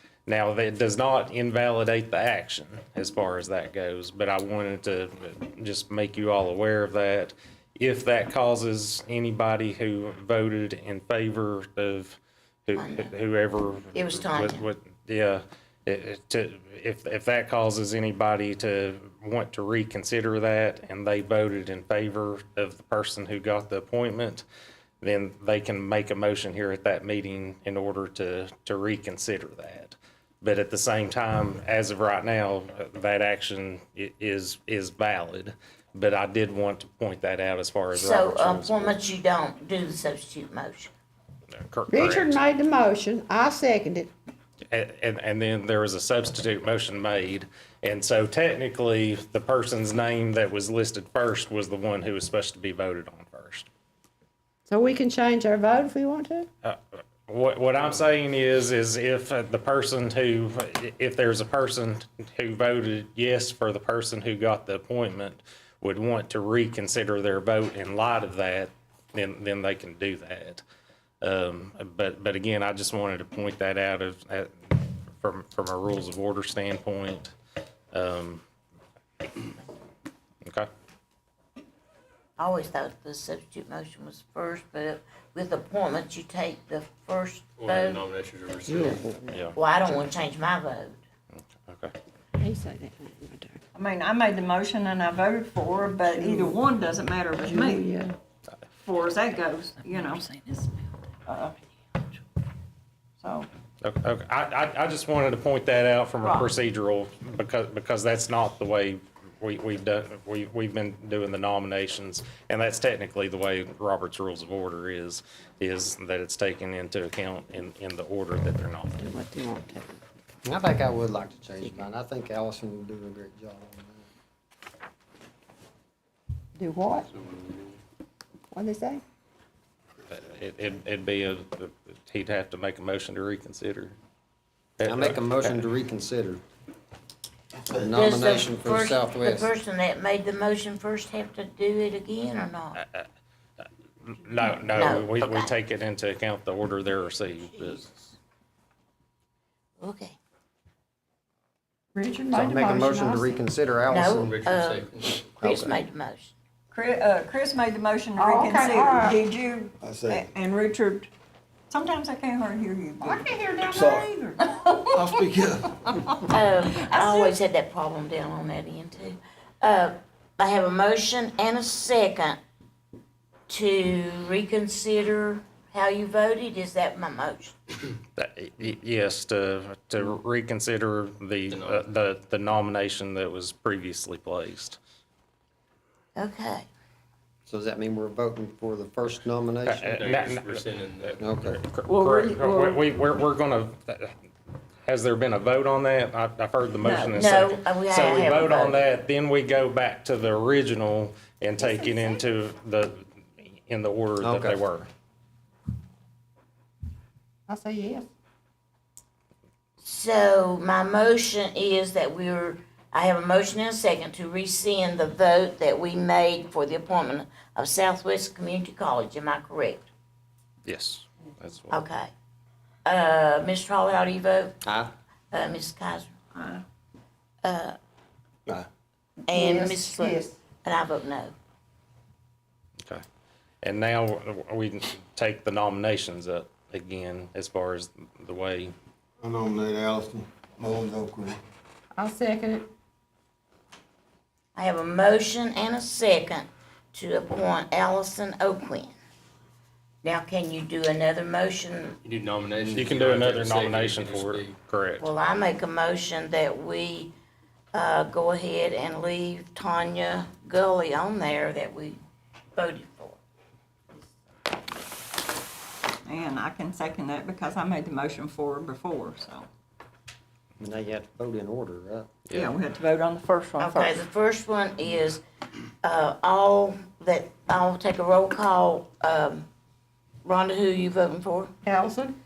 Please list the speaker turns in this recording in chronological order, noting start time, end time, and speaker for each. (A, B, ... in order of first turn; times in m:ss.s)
0:00.3-0:24.4 A
0:12.8-0:13.1 B
0:13.9-0:14.6 B
0:25.0-0:39.0 A
0:37.9-0:40.9 B
0:41.5-0:42.4 A
0:41.9-0:44.1 C
0:44.7-0:53.7 A
0:54.7-0:56.5 C
0:56.6-1:10.6 A
1:11.2-1:17.3 A
1:17.9-1:18.4 A
1:22.4-1:28.0 B
1:27.6-1:29.1 D
1:28.7-1:29.4 C
1:29.3-1:29.6 A
1:29.6-1:31.0 B
1:31.4-1:31.9 A
1:32.4-1:33.6 C
1:33.7-1:37.9 E
1:36.1-1:36.6 C
1:37.5-1:38.2 C
1:38.8-1:41.6 E
1:43.2-1:43.5 E
1:43.8-1:59.0 A
1:46.2-1:46.5 E
1:59.0-2:00.0 C
2:00.4-2:04.0 F
2:06.6-2:07.1 C
2:07.1-2:07.8 D
2:08.5-2:09.0 C
2:10.1-2:14.0 A
2:14.8-2:15.6 A
2:14.9-2:16.4 F
2:17.7-2:19.5 F
2:17.9-2:22.8 B
2:22.8-2:23.1 A
2:24.0-2:28.1 A
2:24.7-2:25.5 B
2:29.8-2:30.2 B
2:32.0-2:33.4 C
2:32.3-2:34.5 F
2:33.9-2:36.3 B
2:34.3-2:35.2 D
2:35.4-2:35.8 F
2:36.7-2:41.1 E
2:38.2-2:39.2 C
2:39.8-2:40.2 G
2:41.7-2:45.3 E
2:43.0-2:44.4 C
2:43.7-2:44.1 G
2:44.9-2:46.2 G
2:46.3-2:52.4 B
2:46.8-2:47.4 E
2:53.5-2:57.6 B
2:58.2-3:04.8 A
3:01.5-3:01.9 D
3:06.2-3:06.7 B
3:07.5-3:09.9 F
3:09.7-3:14.2 A
3:09.9-3:11.2 D
3:11.2-3:11.6 F
3:11.9-3:12.8 E
3:14.9-3:24.9 A
3:16.8-3:17.2 E
3:17.1-3:18.8 B
3:24.2-3:24.6 F
3:27.5-3:28.1 C
3:29.8-3:39.8 B
3:40.6-3:41.8 A
3:41.7-3:42.1 B
3:42.8-3:44.6 B
3:44.7-3:44.9 F
3:45.3-3:46.1 B
3:46.3-3:46.6 E
3:47.4-3:47.8 B
3:49.3-3:50.3 C
3:49.3-3:51.3 B
3:53.6-3:58.8 A
3:59.2-4:01.4 G
4:02.0-4:02.7 C
4:04.6-4:09.0 B
4:10.0-4:12.0 B
4:12.0-4:14.6 D
4:12.7-4:15.1 A
4:15.0-4:17.1 B
4:17.7-4:22.0 B
4:22.6-4:23.2 B
4:26.0-4:29.5 E
4:30.6-4:32.1 F
4:32.3-4:32.5 A
4:32.3-4:34.0 E
4:33.6-4:35.2 B
4:35.8-4:39.5 B
4:40.2-4:41.5 B
4:41.6-4:42.2 C